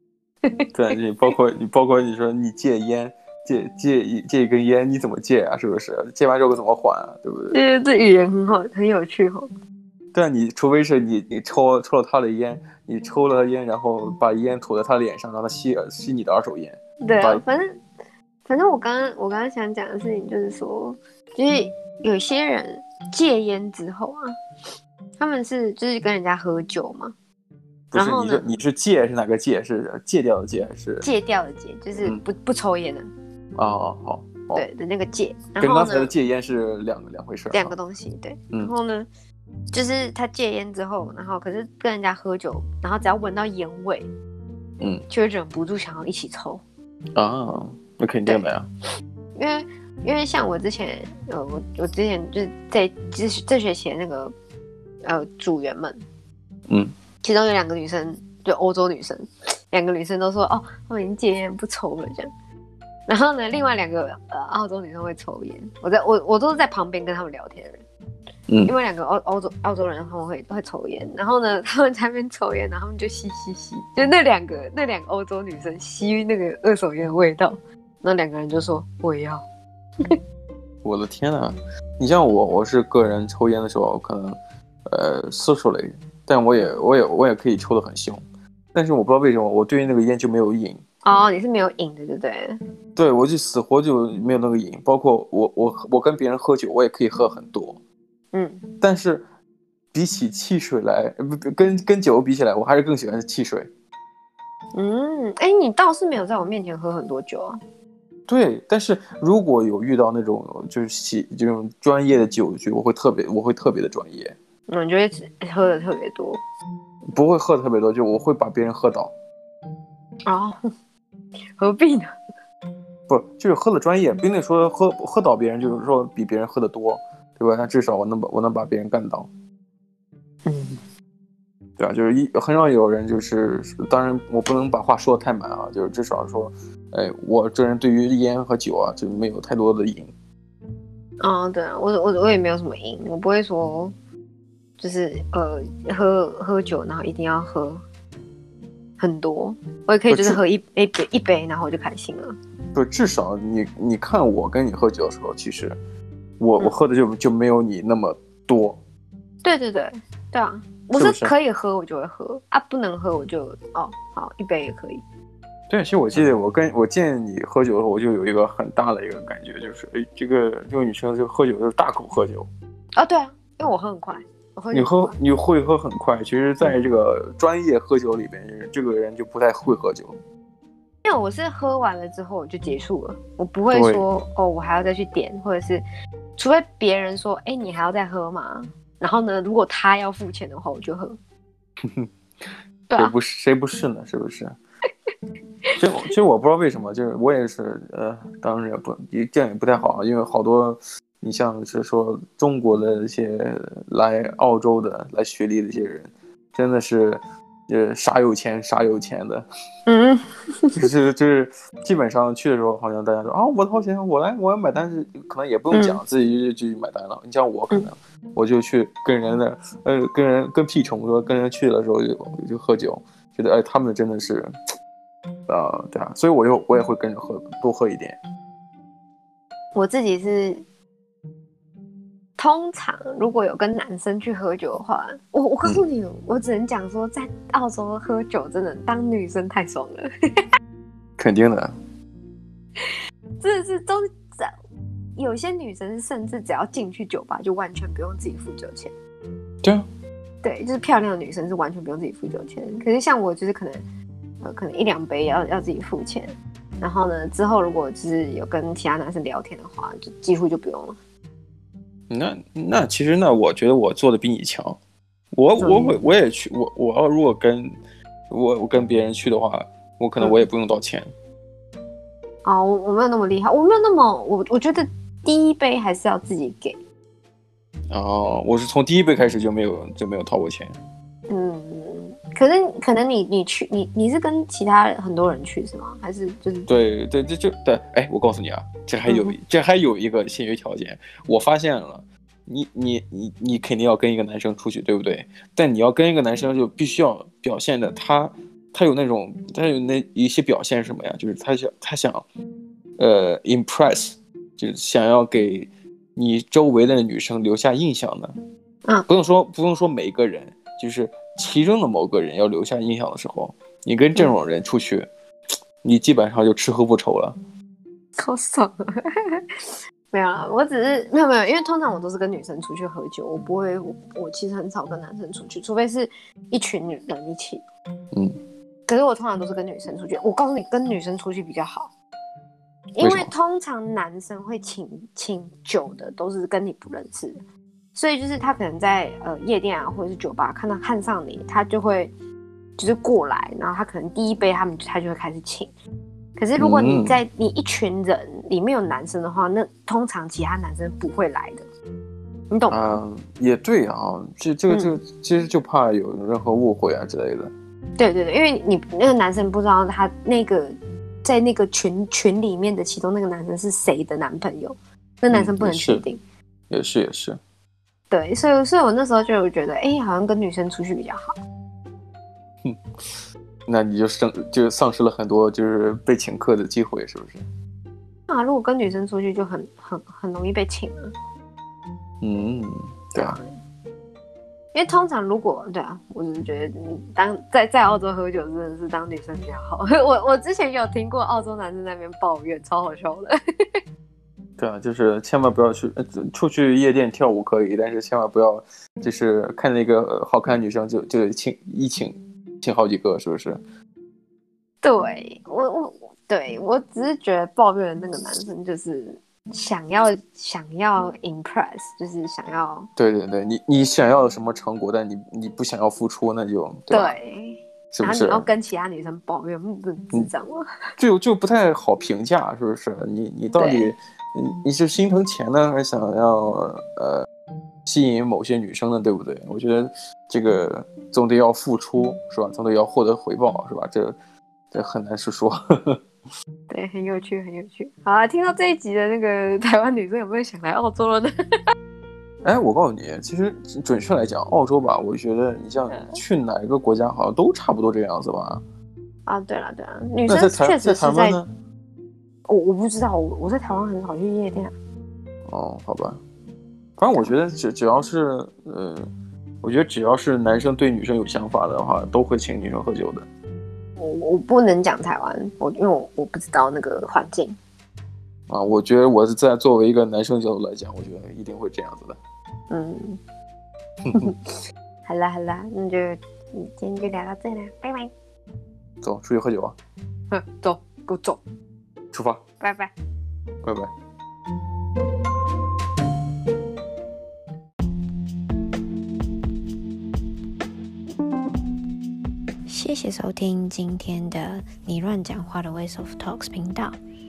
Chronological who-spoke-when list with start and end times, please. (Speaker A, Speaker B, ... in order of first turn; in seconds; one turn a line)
Speaker A: 0.7-7.6
Speaker B: 7.5-9.5
Speaker A: 10.1-17.4
Speaker B: 17.0-17.8
Speaker B: 18.4-24.3
Speaker B: 25.2-27.1
Speaker A: 27.9-31.1
Speaker B: 27.9-28.5
Speaker B: 31.0-33.1
Speaker A: 33.5-34.6
Speaker B: 34.5-36.1
Speaker A: 35.6-37.8
Speaker B: 37.5-39.1
Speaker B: 39.7-44.1
Speaker A: 44.8-45.1
Speaker B: 45.1-46.6
Speaker A: 47.1-48.7
Speaker B: 49.4-54.3
Speaker B: 55.0-56.0
Speaker A: 56.7-56.9
Speaker B: 57.2-62.3
Speaker B: 63.1-67.8
Speaker A: 68.5-68.7
Speaker B: 68.6-79.4
Speaker A: 80.8-88.2
Speaker A: 88.7-90.8
Speaker B: 91.0-92.6
Speaker A: 93.0-97.8
Speaker B: 98.3-98.6
Speaker A: 98.8-99.2
Speaker A: 99.9-103.7
Speaker B: 104.8-107.6
Speaker A: 108.3-114.4
Speaker B: 114.7-116.4
Speaker A: 117.1-119.1
Speaker B: 120.3-120.6
Speaker B: 121.6-122.1
Speaker A: 123.1-129.3
Speaker B: 130.4-130.8
Speaker A: 131.8-140.1
Speaker B: 141.2-143.9
Speaker B: 144.8-147.8
Speaker B: 149.0-152.3
Speaker A: 150.1-150.4
Speaker A: 152.7-155.8
Speaker A: 156.4-158.8
Speaker B: 159.4-165.0
Speaker A: 160.9-161.3
Speaker A: 165.7-172.5
Speaker B: 173.0-175.2
Speaker A: 174.7-180.2
Speaker B: 181.1-185.8
Speaker A: 183.7-184.0
Speaker B: 186.4-191.2
Speaker A: 191.8-194.6
Speaker B: 192.9-193.1
Speaker A: 195.8-209.4
Speaker B: 209.9-210.8
Speaker A: 210.8-224.5
Speaker B: 215.7-216.0
Speaker A: 225.5-228.2
Speaker B: 229.8-230.6
Speaker B: 232.4-240.1
Speaker A: 241.2-241.8
Speaker B: 242.8-244.5
Speaker B: 245.2-248.9
Speaker B: 250.4-253.8
Speaker B: 254.4-261.0
Speaker A: 262.1-264.8
Speaker A: 265.3-267.7
Speaker B: 265.6-266.0
Speaker A: 268.3-271.1
Speaker B: 272.4-276.8
Speaker A: 277.9-280.8
Speaker B: 281.3-286.7
Speaker A: 286.7-302.2
Speaker B: 289.1-289.4
Speaker A: 303.0-308.3
Speaker A: 309.1-315.1
Speaker A: 315.8-317.4
Speaker B: 318.2-319.4
Speaker B: 320.1-327.6
Speaker B: 328.9-331.9
Speaker B: 332.9-337.4
Speaker A: 333.0-333.3
Speaker B: 337.9-342.1
Speaker B: 342.8-345.7
Speaker B: 346.4-351.6
Speaker A: 346.6-347.2
Speaker B: 352.5-353.0
Speaker A: 352.7-357.5
Speaker B: 358.0-366.2
Speaker A: 365.3-366.0
Speaker A: 366.7-367.4
Speaker B: 368.1-371.3
Speaker A: 373.7-377.4
Speaker B: 378.3-381.1
Speaker A: 382.2-383.4
Speaker B: 383.2-383.5
Speaker B: 384.7-393.8
Speaker A: 394.6-403.6
Speaker B: 404.8-412.9
Speaker A: 413.0-417.1
Speaker B: 416.9-420.6
Speaker A: 417.9-418.5
Speaker A: 421.0-427.3
Speaker B: 423.6-423.9
Speaker A: 427.9-434.1
Speaker A: 434.7-436.0
Speaker B: 436.7-441.3
Speaker A: 442.4-448.6
Speaker B: 449.3-451.4
Speaker A: 450.3-451.5
Speaker B: 452.5-454.8
Speaker A: 455.5-456.2
Speaker A: 457.0-459.1
Speaker A: 459.6-463.3
Speaker B: 464.0-467.6
Speaker A: 468.5-472.2
Speaker B: 472.7-473.2
Speaker B: 474.1-474.4
Speaker B: 475.1-478.1
Speaker A: 479.0-479.8
Speaker B: 480.3-481.4
Speaker A: 482.1-482.4
Speaker B: 482.6-482.9
Speaker A: 483.6-483.9
Speaker C: 492.6-497.0